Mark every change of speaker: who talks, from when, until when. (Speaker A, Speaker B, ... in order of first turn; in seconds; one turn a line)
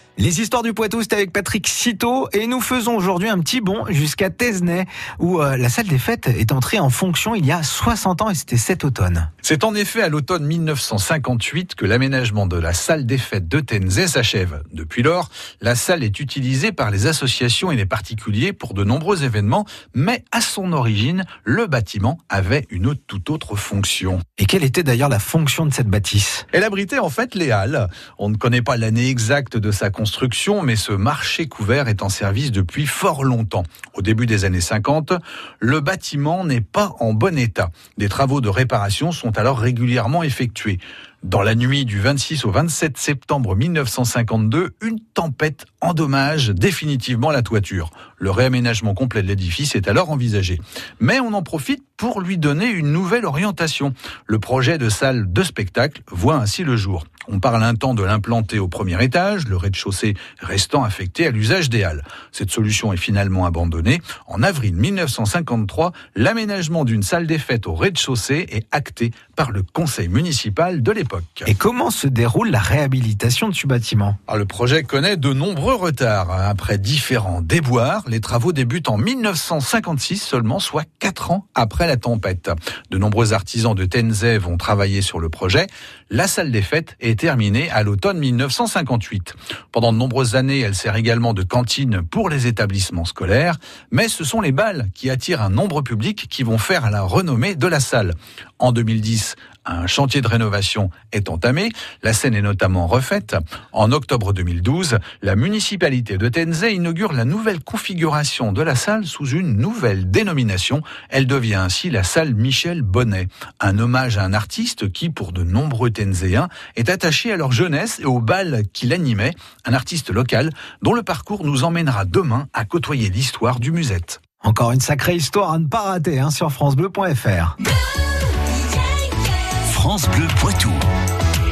Speaker A: 0.2-9.3
Speaker B: 9.4-24.2
Speaker A: 24.4-26.4
Speaker B: 26.5-71.5
Speaker A: 71.5-74.2
Speaker B: 74.3-124.2
Speaker A: 124.4-127.6
Speaker C: 128.4-130.8